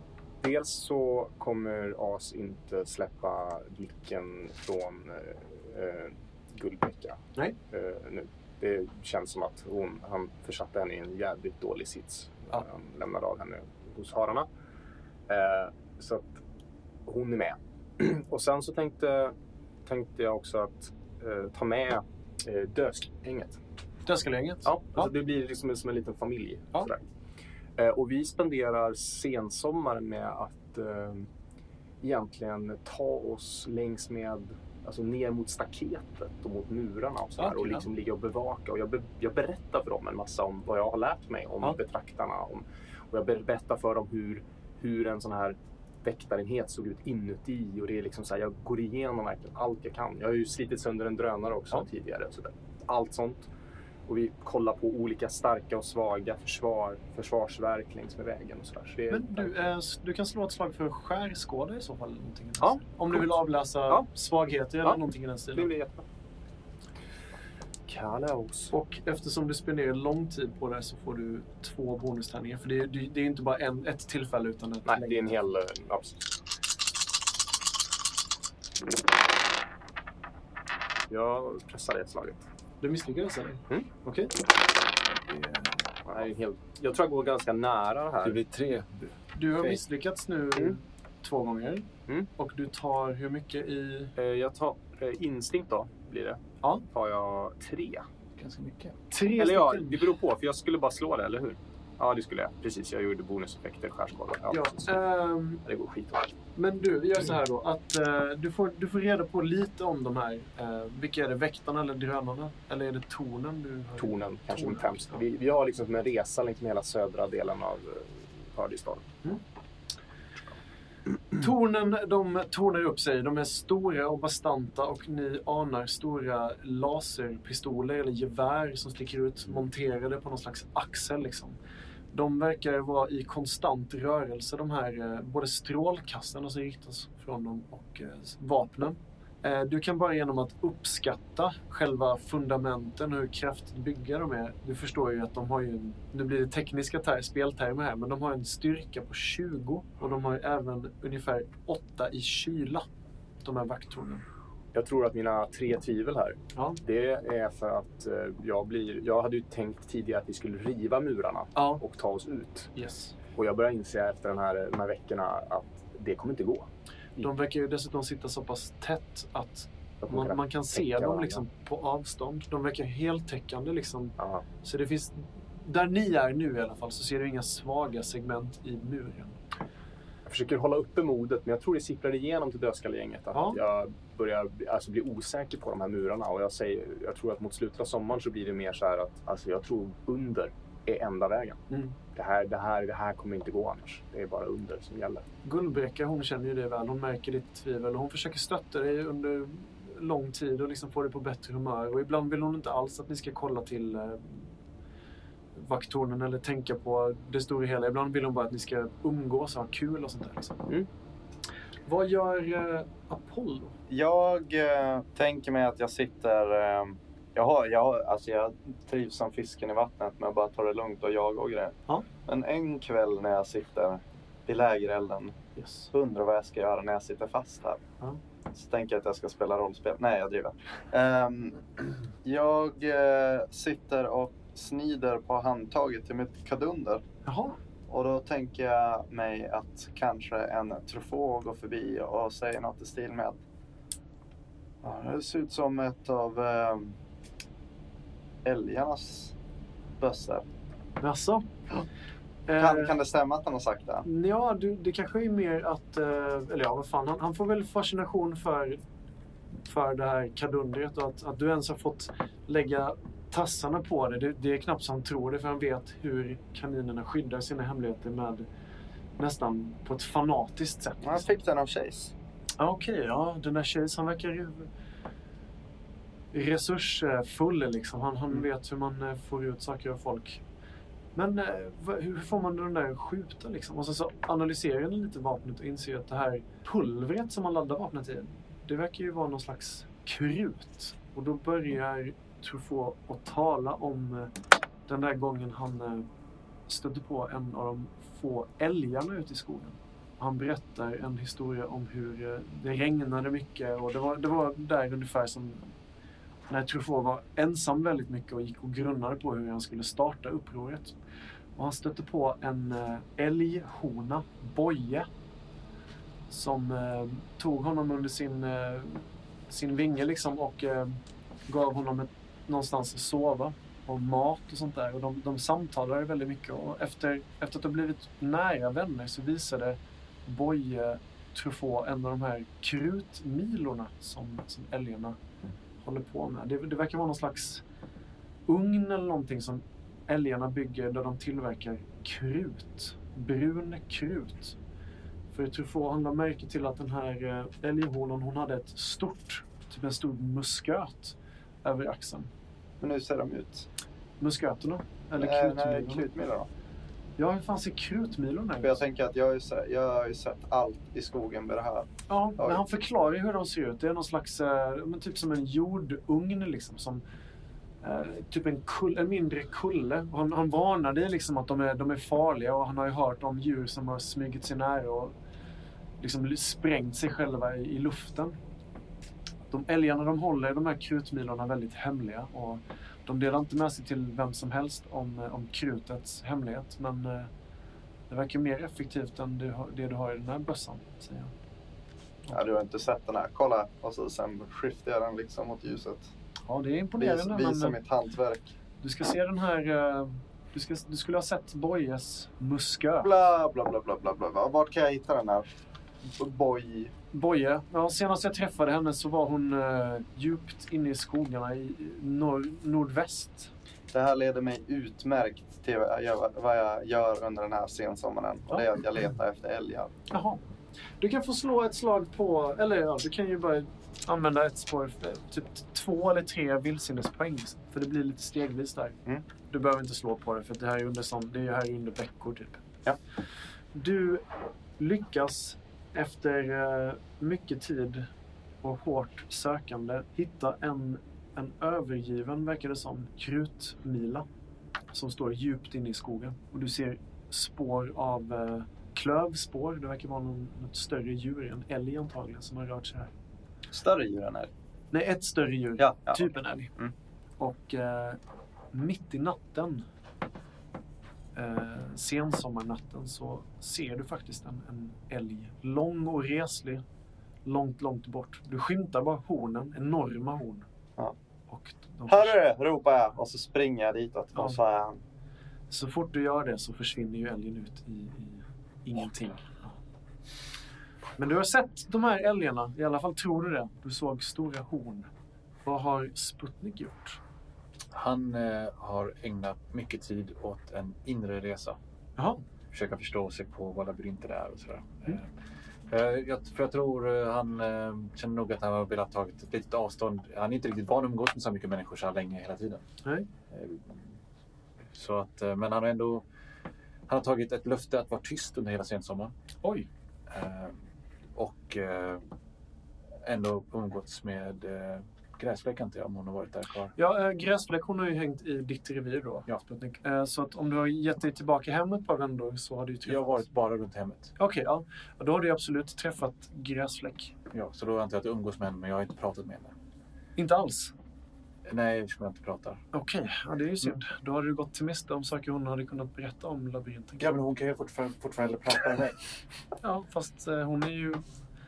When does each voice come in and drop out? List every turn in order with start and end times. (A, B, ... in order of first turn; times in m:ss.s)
0:00.4-0:14.5 A
0:15.3-0:16.4 A
0:17.0-0:19.3 A
0:19.8-0:23.6 A
0:24.0-0:25.1 B
0:24.6-0:27.0 A
0:27.8-0:31.3 A
0:32.0-0:53.5 A
0:37.4-0:37.8 B
0:54.1-0:59.6 A
0:59.1-1:05.7 B
1:02.6-1:03.3 A
1:05.5-1:06.0 A
1:07.9-1:08.7 A
1:08.7-1:15.4 B
1:14.8-1:16.2 A
1:21.1-1:22.4 A
1:22.8-1:24.3 B
1:25.4-1:25.7 B
1:26.0-1:28.4 A
1:28.2-1:29.0 C
1:29.3-1:34.1 B
1:34.2-1:38.1 A
1:38.4-1:39.0 C
1:39.1-1:40.0 B
1:39.4-1:44.9 A
1:44.5-1:45.6 B
1:45.6-1:46.4 A
1:46.6-1:55.2 B
1:54.0-1:59.2 A
2:01.4-2:11.6 B
2:12.1-2:32.9 B
2:33.4-2:34.2 B
2:34.7-2:42.7 A
2:41.6-2:41.8 B
2:42.7-2:43.1 B
2:43.3-2:47.3 A
2:47.2-2:59.4 B
2:50.0-2:51.4 A
2:54.2-2:54.4 A
3:00.2-3:11.6 A
3:03.3-3:03.6 B
3:11.7-3:12.0 B
3:12.1-3:15.2 A
3:15.4-3:24.5 B
3:25.5-3:30.6 B
3:31.8-3:33.8 B
3:33.9-3:45.4 D
3:45.6-3:45.9 B
3:45.9-3:47.8 D
3:48.5-3:51.7 D
3:52.2-3:57.0 D
3:57.2-3:57.6 B
3:57.9-4:03.4 D
4:04.8-4:07.0 D
4:08.4-4:09.3 D
4:10.0-4:10.4 D
4:11.0-4:11.8 B
4:12.5-4:12.9 B
4:12.6-4:14.0 D
4:14.0-4:18.8 B
4:19.6-4:28.5 B
4:29.2-4:31.3 B
4:31.0-4:32.1 D
4:32.6-4:34.7 B
4:36.3-4:40.4 B
4:41.1-4:54.3 B
4:54.9-4:56.1 B
4:56.7-5:05.7 B
5:06.5-5:11.0 B
5:11.6-5:15.1 B
5:16.3-5:35.2 B
5:35.8-5:37.6 B
5:38.5-5:44.6 B
5:45.3-5:52.3 B
5:52.8-5:53.7 D
5:54.2-5:56.1 B
5:55.2-5:56.5 D
5:57.2-5:58.8 B
5:58.6-6:02.6 D
6:02.1-6:07.0 B
6:07.8-6:15.1 B
6:16.0-6:18.4 B
6:19.4-6:27.3 B
6:28.1-6:31.3 B
6:32.3-6:36.1 D
6:36.4-6:37.8 B
6:37.0-6:38.5 D
6:38.8-6:43.1 B
6:43.0-6:45.5 D
6:46.1-6:46.9 D
6:47.1-6:53.5 B
6:53.9-6:59.9 D
7:00.1-7:00.4 B
7:01.0-7:09.0 B
7:09.5-7:12.6 B
7:13.7-7:18.1 B
7:18.6-7:24.2 B
7:24.9-7:33.1 B
7:33.7-7:34.5 D
7:34.9-7:36.7 B
7:35.8-7:36.9 D
7:37.4-7:38.2 B
7:38.7-7:39.8 B
7:41.4-7:46.8 B
7:47.4-7:50.6 B
7:51.5-7:52.4 B
7:52.1-7:55.0 D
7:55.7-7:59.8 B
8:01.2-8:05.1 B
8:05.6-8:07.2 B
8:07.9-8:11.8 C
8:12.2-8:12.4 B
8:12.7-8:15.3 C
8:15.9-8:22.8 C
8:23.5-8:24.0 C
8:24.9-8:26.2 C
8:27.1-8:29.3 C
8:29.6-8:29.9 B
8:30.3-8:30.8 C
8:31.4-8:32.2 C
8:33.2-8:36.9 C
8:37.0-8:43.4 B
8:43.0-8:44.3 C
8:44.4-8:47.3 B
8:47.5-8:49.7 C
8:50.4-8:50.9 B
8:51.6-8:52.8 C
8:52.9-8:57.3 B
8:57.2-8:59.2 C
8:59.8-9:01.2 B